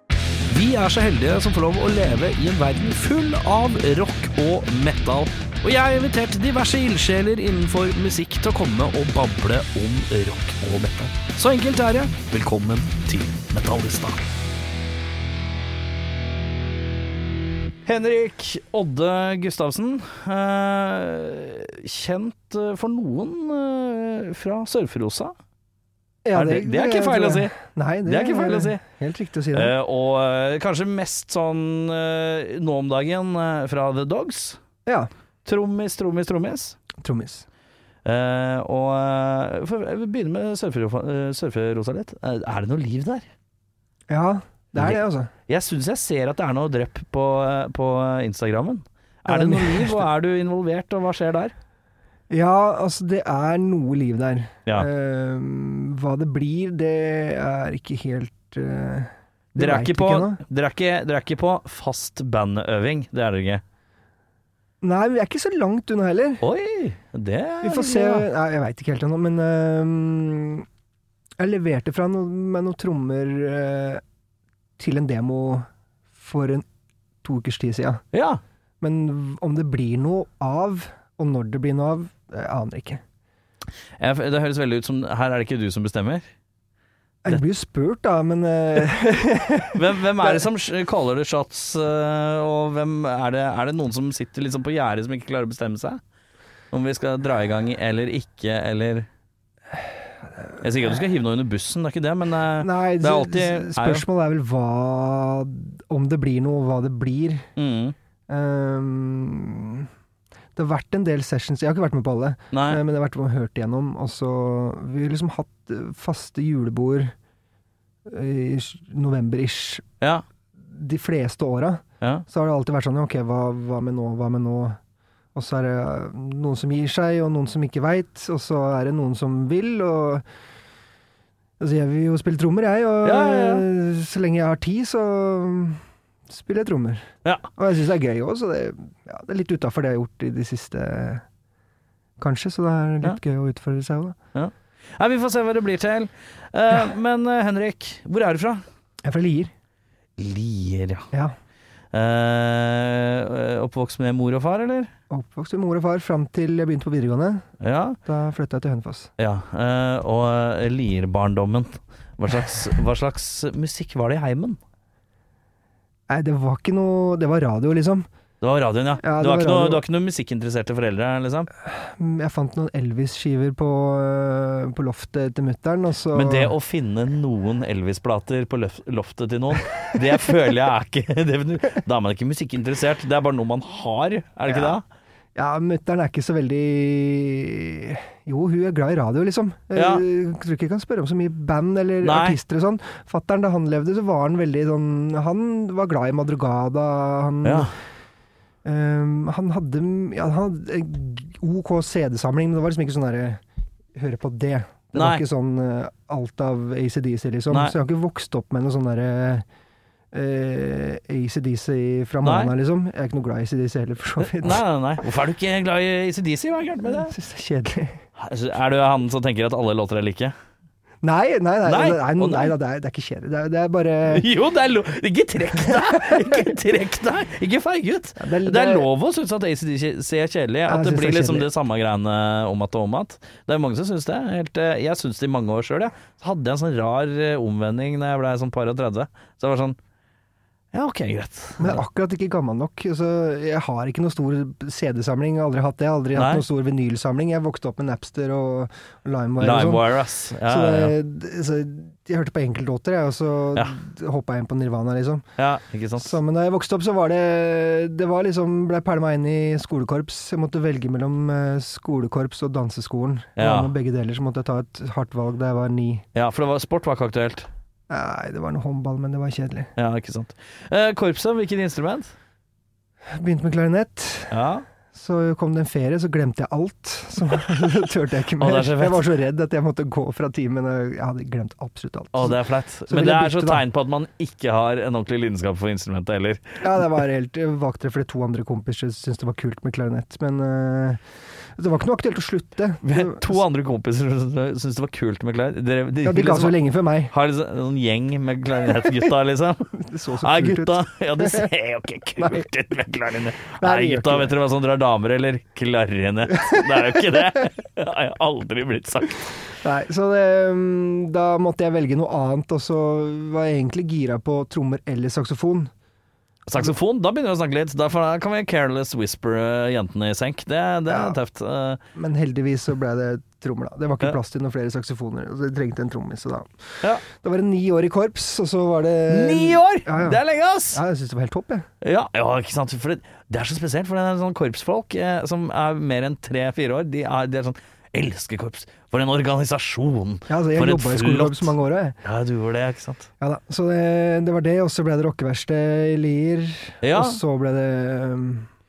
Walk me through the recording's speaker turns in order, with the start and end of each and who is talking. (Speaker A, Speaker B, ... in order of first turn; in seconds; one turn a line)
Speaker A: 0.5-14.3
Speaker A: 17.9-25.3
Speaker B: 26.2-29.7
Speaker A: 26.4-27.5
Speaker A: 28.1-28.8
Speaker A: 29.5-34.6
Speaker A: 35.5-36.8
Speaker B: 37.0-37.5
Speaker A: 38.0-43.3
Speaker B: 44.1-45.3
Speaker A: 44.8-51.5
Speaker B: 49.3-50.0
Speaker B: 52.3-60.4
Speaker A: 59.6-63.6
Speaker B: 64.8-66.4
Speaker A: 66.4-68.3
Speaker B: 67.6-70.7
Speaker B: 71.4-74.0
Speaker B: 74.8-76.7
Speaker B: 77.2-78.0
Speaker A: 78.1-78.4
Speaker B: 78.8-83.0
Speaker A: 84.0-86.3
Speaker B: 87.2-90.4
Speaker A: 89.7-96.0
Speaker A: 96.7-99.1
Speaker A: 100.6-104.0
Speaker B: 102.6-107.5
Speaker A: 107.6-108.0
Speaker B: 108.3-109.9
Speaker B: 110.6-117.1
Speaker A: 112.5-112.8
Speaker B: 118.1-119.8
Speaker B: 120.7-124.8
Speaker B: 125.3-130.2
Speaker B: 131.6-141.2
Speaker A: 133.0-133.7
Speaker B: 142.2-144.2
Speaker A: 144.3-148.6
Speaker B: 149.0-149.5
Speaker A: 150.2-151.1
Speaker A: 151.9-154.9
Speaker B: 155.1-157.5
Speaker A: 157.6-158.0
Speaker B: 158.1-159.1
Speaker A: 159.2-164.6
Speaker B: 166.1-168.1
Speaker A: 168.4-171.5
Speaker B: 169.0-169.8
Speaker B: 171.7-176.5
Speaker A: 176.1-184.8
Speaker B: 184.5-184.8
Speaker B: 185.4-197.8
Speaker A: 189.8-190.0
Speaker A: 192.0-192.4
Speaker A: 197.4-197.8
Speaker B: 198.6-203.4
Speaker B: 203.9-209.5
Speaker A: 205.0-205.2
Speaker A: 207.5-207.8
Speaker B: 210.1-214.6
Speaker A: 212.2-212.5
Speaker A: 214.2-217.1
Speaker B: 216.8-218.0
Speaker A: 218.2-220.3
Speaker B: 221.0-224.2
Speaker A: 221.7-222.5
Speaker A: 224.1-239.8
Speaker B: 225.6-226.5
Speaker B: 228.2-228.9
Speaker B: 230.7-231.5
Speaker A: 240.7-241.8
Speaker B: 241.6-249.9
Speaker A: 246.2-246.4
Speaker A: 249.4-250.9
Speaker B: 250.4-255.3
Speaker A: 255.4-256.2
Speaker B: 256.0-266.1
Speaker A: 263.4-263.7
Speaker A: 266.1-267.5
Speaker B: 267.9-269.7
Speaker A: 269.8-272.1
Speaker B: 273.1-274.3
Speaker A: 274.3-274.6
Speaker B: 274.9-283.6
Speaker A: 278.4-279.0
Speaker A: 282.1-286.6
Speaker B: 286.6-291.0
Speaker B: 291.6-293.4
Speaker A: 292.8-309.2
Speaker B: 296.0-297.1
Speaker B: 299.8-301.5
Speaker B: 302.2-302.5
Speaker B: 303.6-304.4
Speaker B: 306.3-307.2
Speaker B: 309.6-315.7
Speaker A: 316.5-321.8
Speaker B: 320.9-321.2
Speaker B: 321.9-331.7
Speaker A: 329.1-330.8
Speaker A: 331.8-341.5
Speaker B: 340.3-342.0
Speaker A: 342.0-343.1
Speaker B: 343.2-348.5
Speaker A: 346.8-347.2